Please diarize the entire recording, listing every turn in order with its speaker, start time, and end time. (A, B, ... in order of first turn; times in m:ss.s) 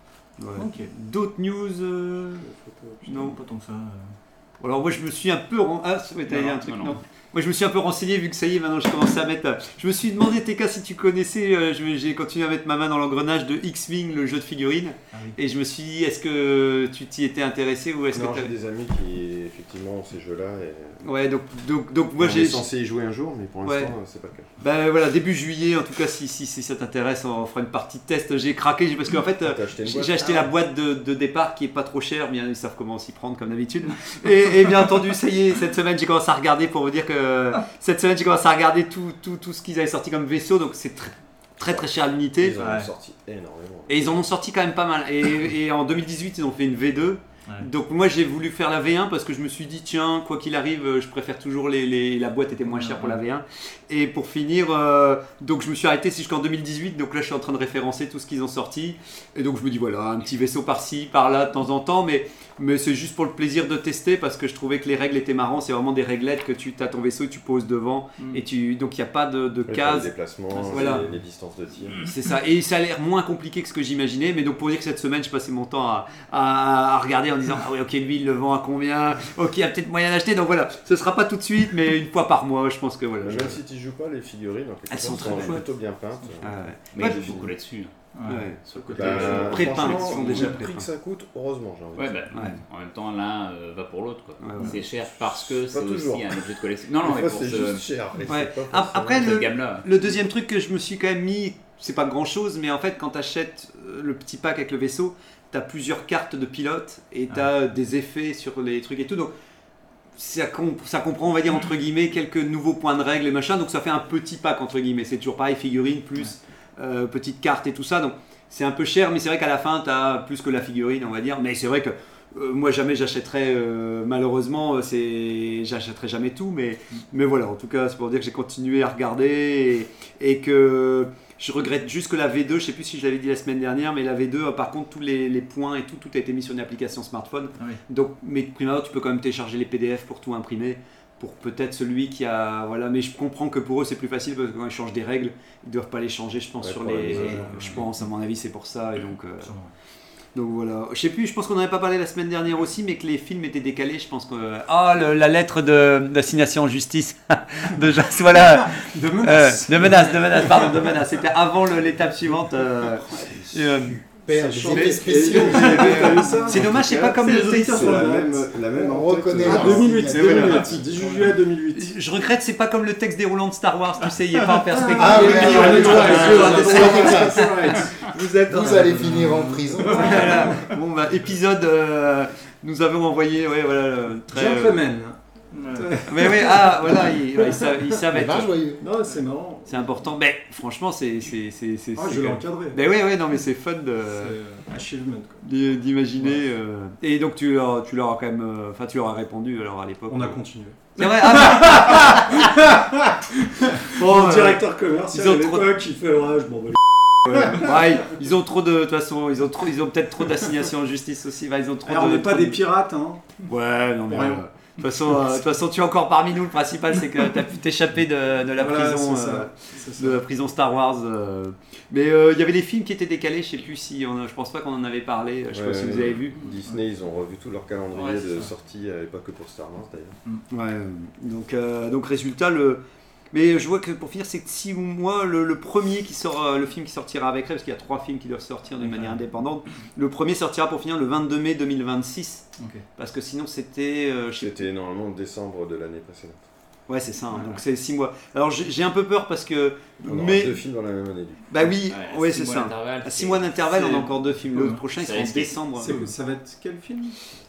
0:00.4-0:02.5 A
0:00.6-0:00.9 B
0:02.4-0:03.2 C
0:03.1-0:03.4 A
0:03.1-0:04.2 B
0:04.6-0:18.5 A
0:06.3-0:06.6 B
0:06.4-0:07.0 D
0:18.1-0:21.0 E
0:21.0-0:22.6 A
0:22.2-0:24.5 E
0:23.6-0:23.9 A
0:24.6-0:42.6 A
0:29.4-0:30.5 E
0:42.4-0:44.2 E
0:42.6-0:42.9 B
0:43.9-1:11.1 A
0:52.6-0:53.2 B
1:09.6-1:12.1 E
1:10.6-1:11.0 B
1:12.0-1:23.6 A
1:23.2-1:27.5 E
1:24.9-1:25.6 A
1:25.2-1:25.5 B
1:26.4-1:27.3 A
1:26.9-1:27.9 D
1:28.1-1:29.6 B
1:28.3-1:30.9 A
1:28.6-1:30.4 D
1:28.9-1:32.2 E
1:31.9-1:37.9 D
1:32.3-1:32.6 A
1:34.4-1:34.8 A
1:34.8-1:39.4 E
1:38.3-1:49.3 A
1:39.2-1:39.9 D
1:50.2-2:29.5 A
2:26.6-2:27.8 E
2:27.1-2:27.8 B
2:29.4-2:29.7 B
2:30.4-2:44.0 A
2:38.8-2:40.4 C
2:43.0-2:46.4 F
2:44.3-2:48.5 C
2:44.7-2:48.1 A
2:46.5-2:51.3 E
2:48.7-2:51.1 F
2:49.4-2:51.9 C
2:51.7-2:57.4 A
2:54.7-2:58.0 C
2:54.9-3:00.4 F
2:55.4-2:57.2 B
2:58.0-2:59.1 A
2:58.6-2:59.3 C
2:59.1-3:00.0 B
2:59.8-3:00.6 C
2:59.9-3:04.8 A
3:04.3-3:05.2 C
3:05.5-3:06.0 B
3:05.7-3:07.7 C
3:06.0-3:08.6 A
3:08.1-3:08.8 F
3:08.8-3:10.1 C
3:09.7-3:14.4 A
3:11.9-3:12.8 C
3:14.1-3:15.4 C
3:15.4-3:20.4 A
3:20.1-3:28.0 C
3:21.0-3:22.5 A
3:23.9-3:25.7 A
3:27.3-3:32.6 A
3:31.9-3:33.2 C
3:33.4-3:46.4 A
3:34.1-3:34.4 C
3:38.6-3:40.2 C
3:45.5-3:50.2 E
3:46.5-3:46.8 B
3:47.9-3:48.5 B
3:50.5-3:52.8 A
3:53.3-4:02.4 A
3:58.8-3:59.2 B
4:02.6-4:02.8 B
4:03.0-4:04.6 A
4:04.4-4:06.4 E
4:06.9-4:10.6 A
4:07.3-4:07.6 B
4:10.0-4:11.8 E
4:11.5-4:16.0 A
4:11.9-4:14.1 D
4:14.5-4:14.8 B
4:14.9-4:15.8 D
4:15.8-4:17.2 C
4:15.8-4:16.1 B